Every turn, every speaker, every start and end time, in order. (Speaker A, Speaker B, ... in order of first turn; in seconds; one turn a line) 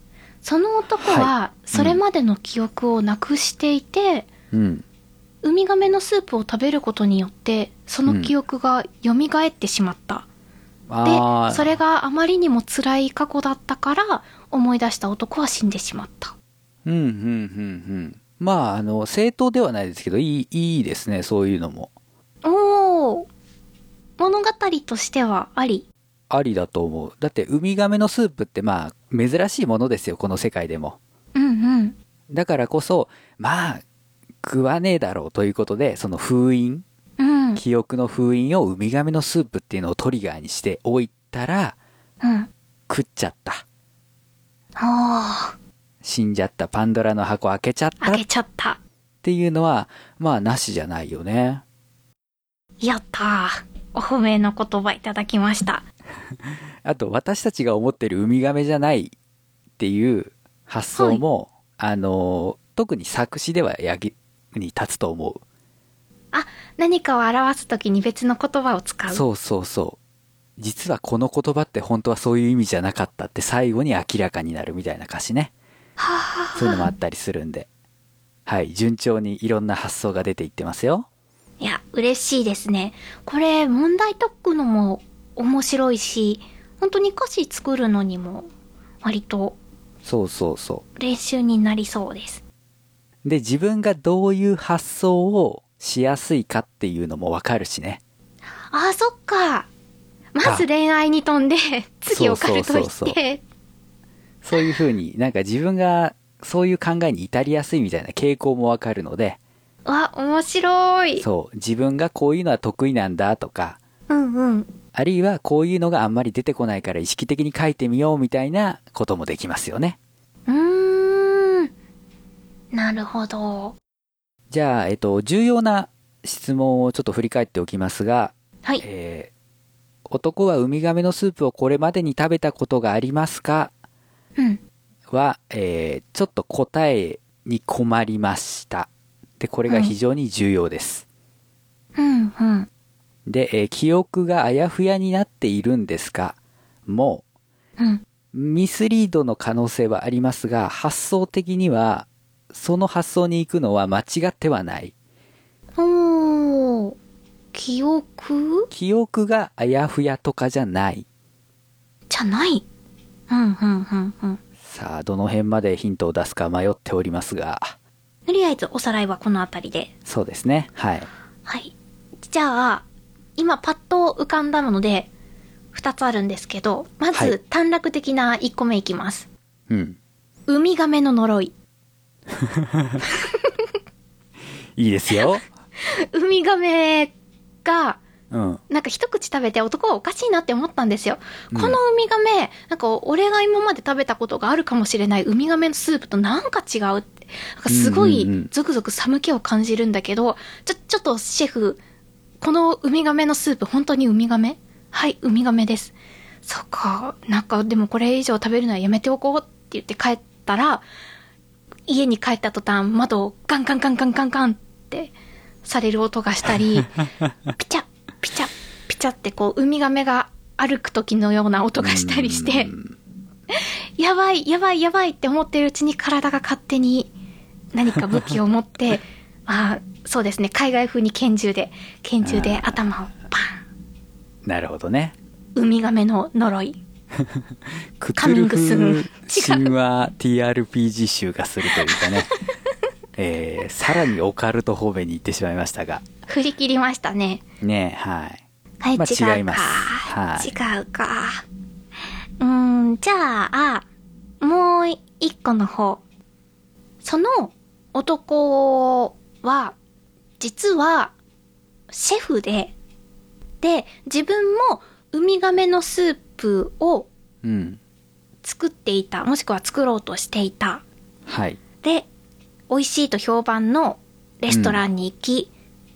Speaker A: 0.4-4.3
Speaker B: 1.0-2.0
Speaker B: 4.5-4.8
Speaker A: 5.4-10.3
Speaker B: 8.1-8.3
Speaker B: 10.9-11.8
Speaker A: 11.1-16.4
Speaker B: 16.9-21.9
Speaker A: 22.4-23.3
Speaker A: 24.2-25.9
Speaker B: 26.3-31.0
Speaker A: 31.4-31.9
Speaker B: 32.3-33.8
Speaker B: 34.4-36.8
Speaker A: 37.2-37.6
Speaker B: 37.6-41.8
Speaker A: 42.2-42.5
Speaker B: 42.9-43.6
Speaker A: 44.8-45.5
Speaker B: 46.0-48.2
Speaker A: 48.0-48.8
Speaker B: 49.2-51.6
Speaker A: 52.8-55.8
Speaker B: 56.8-59.1
Speaker B: 59.8-65.4
Speaker A: 60.9-61.2
Speaker A: 66.3-69.2
Speaker B: 69.1-70.0
Speaker B: 70.6-75.5
Speaker A: 76.0-76.8
Speaker B: 76.5-77.7
Speaker B: 78.5-81.1
Speaker A: 81.6-88.5
Speaker A: 89.0-89.6
Speaker B: 90.0-90.8
Speaker A: 91.0-92.4
Speaker B: 93.2-98.0
Speaker A: 98.7-99.7
Speaker A: 100.3-103.4
Speaker B: 102.1-103.2
Speaker B: 104.4-109.4
Speaker A: 109.9-111.2
Speaker B: 111.2-113.8
Speaker A: 114.1-114.7
Speaker B: 114.9-120.0
Speaker A: 120.5-121.7
Speaker A: 122.7-123.8
Speaker B: 124.5-129.3
Speaker B: 130.1-133.7
Speaker B: 135.1-138.9
Speaker B: 139.4-141.1
Speaker A: 141.9-142.7
Speaker B: 143.3-146.4
Speaker B: 146.9-147.2
Speaker A: 147.8-148.0
Speaker B: 148.3-154.9
Speaker A: 155.8-157.0
Speaker A: 157.5-158.7
Speaker B: 158.7-161.1
Speaker A: 162.1-162.6
Speaker A: 163.3-164.4
Speaker B: 164.7-167.8
Speaker A: 168.2-169.9
Speaker B: 170.1-171.1
Speaker A: 171.4-172.8
Speaker A: 173.4-175.1
Speaker A: 175.7-179.3
Speaker B: 179.7-180.0
Speaker A: 180.5-181.5
Speaker B: 182.4-183.0
Speaker A: 183.1-183.7
Speaker B: 184.8-185.4
Speaker A: 185.8-188.0
Speaker B: 188.3-188.6
Speaker A: 188.7-201.8
Speaker B: 191.5-191.8
Speaker B: 197.7-198.5
Speaker A: 202.4-210.8
Speaker A: 211.9-215.1
Speaker A: 215.6-216.9
Speaker A: 217.6-222.7
Speaker B: 221.8-222.9
Speaker A: 223.5-227.1
Speaker A: 227.7-233.5
Speaker B: 232.2-232.8
Speaker B: 234.4-235.2
Speaker A: 235.6-236.8
Speaker B: 238.0-242.3
Speaker A: 238.2-239.7
Speaker A: 241.7-242.3
Speaker B: 243.2-246.1
Speaker A: 246.2-247.4
Speaker B: 247.6-248.4
Speaker A: 248.8-251.4
Speaker B: 248.9-250.5
Speaker A: 252.4-253.8
Speaker A: 254.4-256.0
Speaker A: 257.0-259.8
Speaker A: 260.4-261.1
Speaker A: 261.9-262.7
Speaker A: 263.6-267.1
Speaker B: 267.4-267.8
Speaker A: 268.4-270.9
Speaker B: 271.3-271.6
Speaker A: 272.7-275.5
Speaker B: 274.5-274.8